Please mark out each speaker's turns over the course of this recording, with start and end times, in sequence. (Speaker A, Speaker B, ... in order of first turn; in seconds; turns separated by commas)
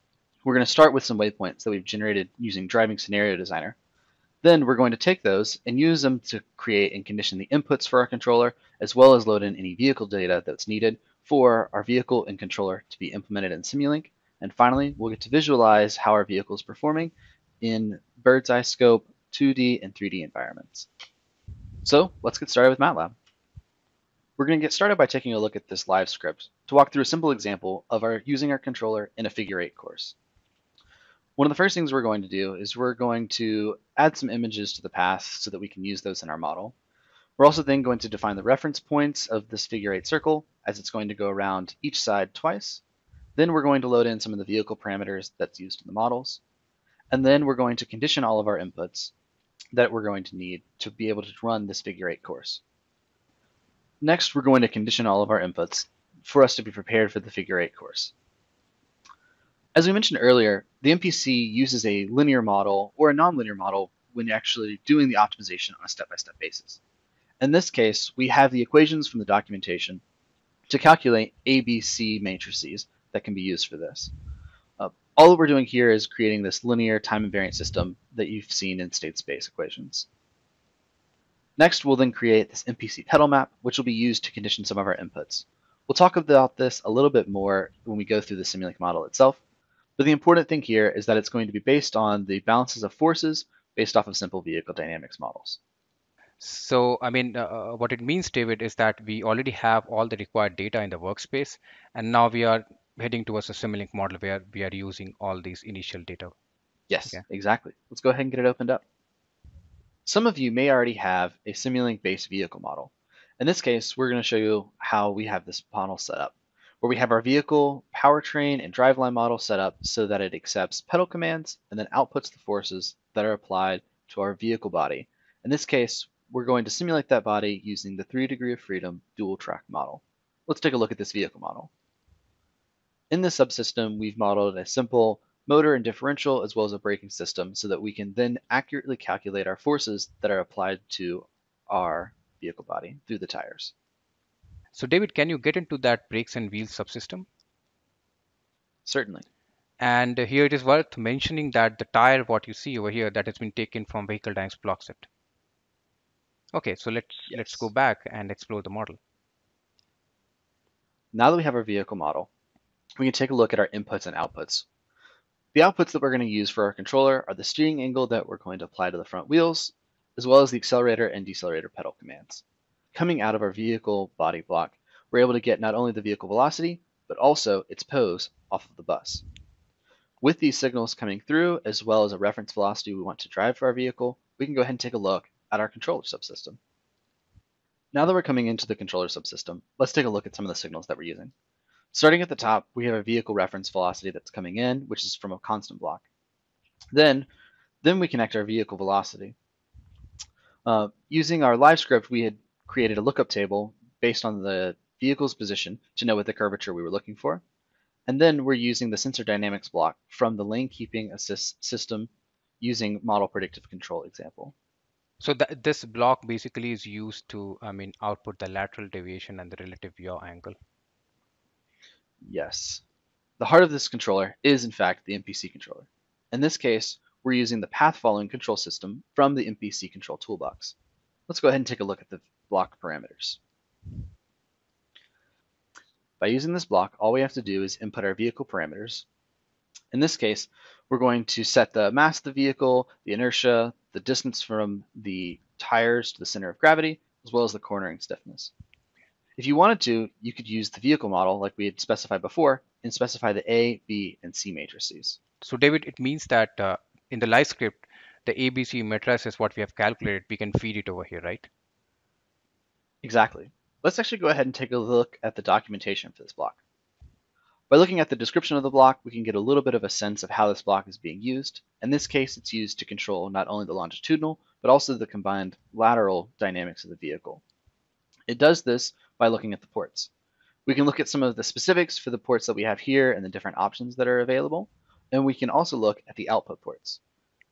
Speaker A: 0.4-3.8, Speaker A: 4.4-20.9, Speaker A: 21.8-23.1, Speaker A: 24.4-30.1, Speaker A: 31.4-36.7, Speaker A: 37.4-42.8, Speaker A: 43.4-46.4, Speaker A: 47.1-49.1, Speaker A: 49.7-52.6, Speaker A: 54.0-58.1, Speaker A: 59.7-66.8, Speaker A: 67.4-70.0, Speaker A: 70.7-74.1, Speaker A: 74.8-80.1, Speaker A: 81.6-89.4, Speaker A: 90.0-95.6, Speaker B: 96.4-106.3, Speaker A: 106.9-108.8, Speaker A: 110.0-131.7, Speaker A: 133.1-143.7, Speaker B: 144.7-147.3, Speaker A: 148.8-149.2, Speaker B: 149.8-155.1, Speaker B: 156.5-159.0, Speaker A: 157.3-157.7, Speaker A: 161.1-162.3, Speaker A: 163.0-164.7, Speaker A: 165.5-172.4, Speaker A: 172.9-179.2, Speaker A: 180.2-186.6, Speaker A: 187.9-191.3, Speaker A: 191.9-196.1, Speaker A: 196.9-197.3, Speaker A: 197.8-199.3, Speaker A: 200.6-207.4, Speaker A: 208.1-212.1, Speaker A: 212.6-214.5, Speaker B: 215.2-220.6, Speaker A: 222.2-222.8, Speaker A: 223.4-230.7, Speaker A: 231.3-233.4, Speaker A: 236.2-239.0, Speaker A: 239.9-248.5, Speaker A: 249.4-255.2, Speaker B: 255.4-261.5, Speaker A: 263.0-266.6, Speaker A: 267.7-277.4, Speaker A: 278.3-280.1, Speaker A: 280.6-287.0